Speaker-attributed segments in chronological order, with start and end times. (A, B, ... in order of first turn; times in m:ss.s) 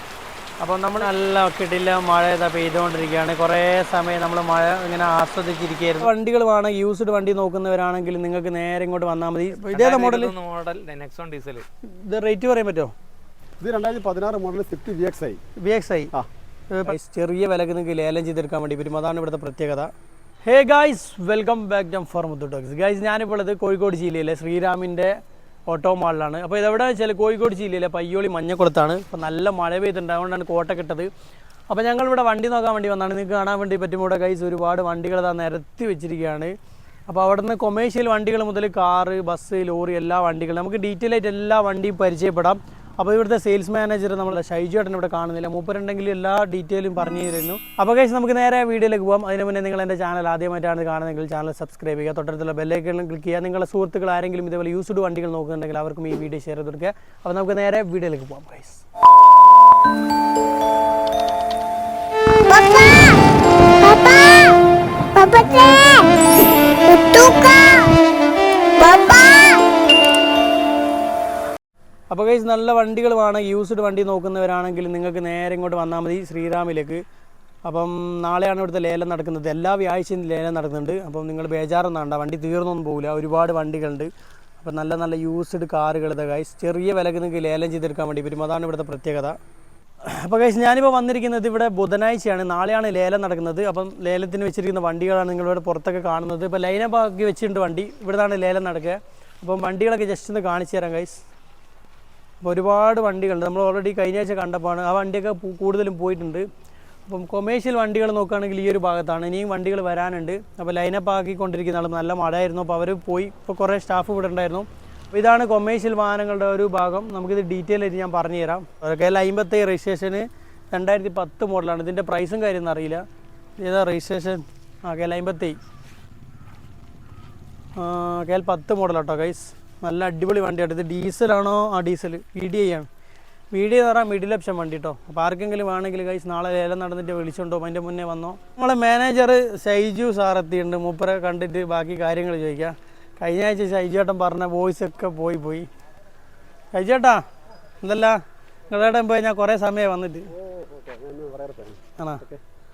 0:00.6-0:10.3 A
0:09.6-0:11.6 B
0:12.0-0:12.9 A
0:13.6-0:15.4 C
0:15.6-0:16.1 A
0:16.7-0:19.9 A
0:20.4-0:25.2 A
0:25.7-0:31.1 A
0:31.7-0:36.5 A
0:37.1-0:58.8 A
1:02.4-1:03.2 D
1:03.8-1:04.6 D
1:05.1-1:06.3 D
1:06.8-1:08.0 D
1:08.8-1:09.8 D
1:12.1-1:17.0 A
1:17.6-1:29.4 A
1:30.0-1:41.2 A
1:42.4-1:46.5 A
1:47.0-2:03.0 A
2:03.6-2:05.6 A
2:07.8-2:12.9 A
2:13.5-2:25.7 A
2:26.7-2:27.2 A
2:27.8-2:30.3 A
2:30.3-2:32.4 C